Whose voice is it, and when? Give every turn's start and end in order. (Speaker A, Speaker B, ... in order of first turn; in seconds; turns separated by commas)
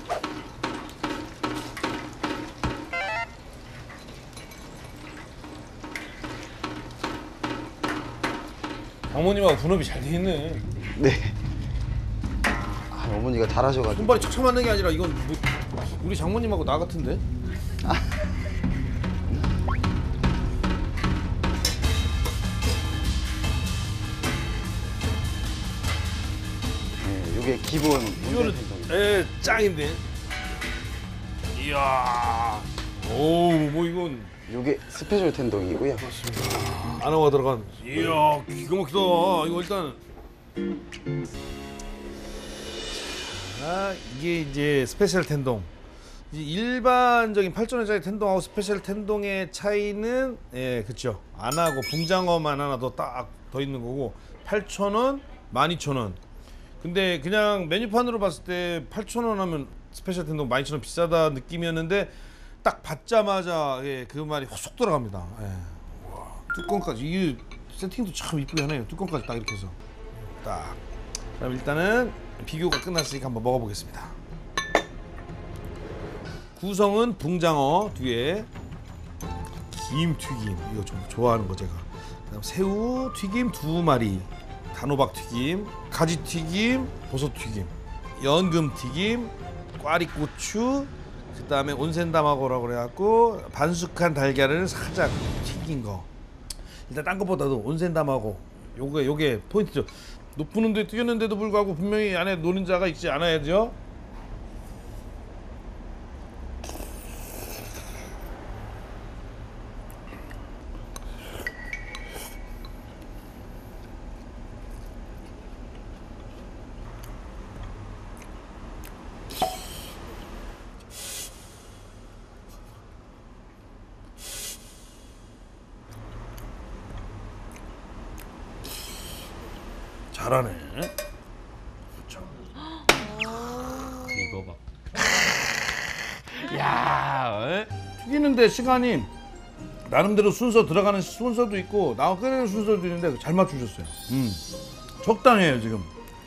Speaker A: 9.1-10.7, Speaker B: 10.8-11.4, Speaker B: 12.9-14.3, Speaker A: 13.9-17.2, Speaker B: 27.0-29.0, Speaker A: 28.2-30.0, Speaker A: 31.6-34.3, Speaker B: 34.5-36.1, Speaker A: 36.0-40.0, Speaker A: 42.9-45.7, Speaker A: 46.3-56.2, Speaker A: 56.8-69.8, Speaker A: 70.4-70.8, Speaker A: 71.4-74.2, Speaker A: 76.6-78.5, Speaker A: 79.7-96.1, Speaker A: 96.9-103.8, Speaker A: 130.1-130.9, Speaker A: 132.0-132.5, Speaker C: 133.1-135.0, Speaker C: 136.3-137.7, Speaker A: 138.0-139.1, Speaker A: 139.9-144.4, Speaker A: 145.0-145.9